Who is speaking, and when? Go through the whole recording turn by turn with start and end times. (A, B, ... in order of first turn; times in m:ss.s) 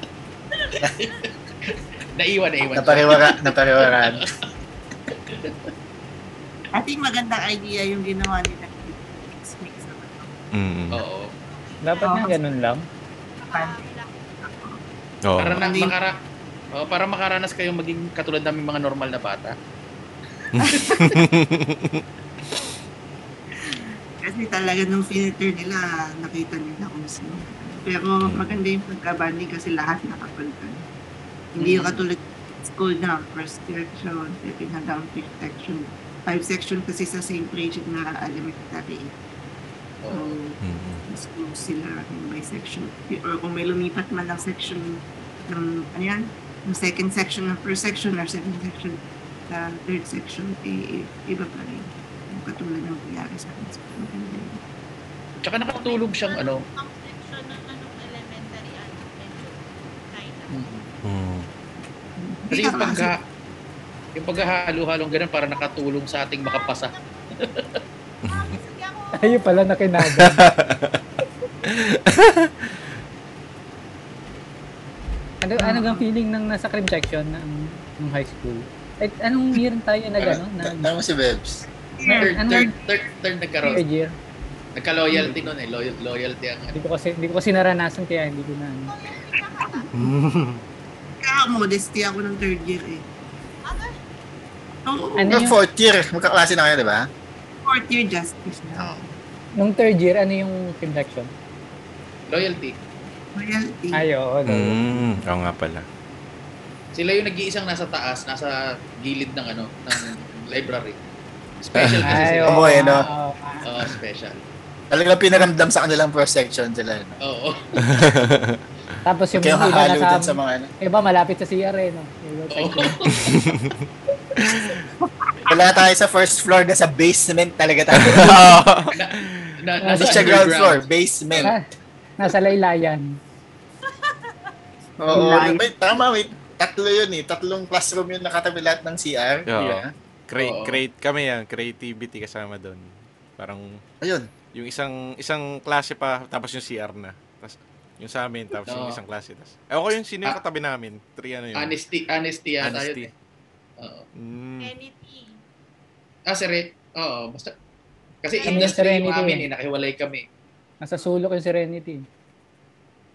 0:00.7-0:04.3 A
0:02.7-0:04.3 B
0:05.1-0:05.7 A
0:06.7-0:10.3 C
0:10.5-0:11.0 D
0:10.9-0:11.3 A
0:11.4-0:12.7 E
0:11.8-0:12.8 F
0:12.0-0:12.3 C
0:13.4-0:14.3 E
0:13.5-0:13.8 C
0:14.4-0:14.8 C
0:15.2-0:15.7 D
0:15.4-0:16.2 A
0:15.6-0:15.9 C
0:16.8-0:19.6 A
0:20.5-0:22.0 D
0:20.6-0:21.2 C
0:23.6-0:30.8 C
0:28.2-0:28.6 D
0:31.6-0:39.1 C
0:31.6-0:32.0 A
0:40.0-0:40.4 A
0:40.1-0:40.6 C
0:40.6-0:41.1 D
0:41.1-0:49.0 C
0:49.5-0:54.6 C
0:55.4-0:56.6 A
0:55.7-1:00.7 E
1:01.0-1:01.5 D
1:02.2-1:03.1 C
1:02.5-1:03.2 A
1:04.2-1:07.8 A
1:05.1-1:05.8 E
1:06.4-1:07.3 E
1:08.2-1:09.6 E
1:08.2-1:08.6 D
1:09.2-1:10.4 F
1:10.0-1:11.0 D
1:11.7-1:12.7 D
1:15.4-1:20.9 F
1:15.6-1:16.0 C
1:20.2-1:21.6 B
1:21.9-1:22.6 C
1:22.0-1:22.7 F
1:22.1-1:23.8 A
1:23.6-1:24.1 F
1:24.8-1:26.8 A
1:26.7-1:28.9 F
1:28.9-1:30.1 E
1:29.9-1:30.6 D
1:31.2-1:33.0 C
1:33.7-1:33.9 E
1:34.9-1:35.5 C
1:35.2-1:35.6 F
1:35.3-1:37.1 B
1:37.6-1:38.9 C
1:38.8-1:39.1 B
1:39.6-1:41.3 F
1:42.3-1:42.8 A
1:43.4-1:44.0 C
1:43.9-1:45.1 F
1:44.5-1:45.9 D
1:46.9-1:51.0 A
1:51.6-1:53.0 A
1:51.8-1:52.4 D
1:52.0-1:53.7 F
1:52.5-1:53.1 B
1:53.6-1:54.4 A
1:54.9-1:57.2 B
1:57.2-1:58.1 A
1:57.8-1:58.6 D
1:59.1-2:03.4 F
1:59.3-2:00.7 B
2:02.5-2:03.4 A
2:03.3-2:03.8 D
2:04.4-2:04.9 D
2:05.0-2:05.3 C
2:05.5-2:08.6 B
2:07.9-2:09.6 D
2:09.0-2:11.5 A
2:09.8-2:10.3 F
2:10.0-2:11.5 B
2:12.2-2:13.2 F
2:13.9-2:14.5 E
2:15.0-2:19.9 B
2:15.1-2:15.7 C
2:19.5-2:23.8 D
2:20.4-2:20.8 A
2:24.0-2:24.3 B
2:24.5-2:31.8 D
2:28.7-2:29.0 A
2:31.6-2:33.1 A
2:32.6-2:33.1 D
2:33.8-2:34.1 A
2:34.2-2:34.7 D
2:34.6-2:35.4 E
2:36.3-2:37.5 A
2:38.2-2:40.3 A
2:38.3-2:39.1 E
2:38.5-2:39.5 F
2:40.8-2:42.1 F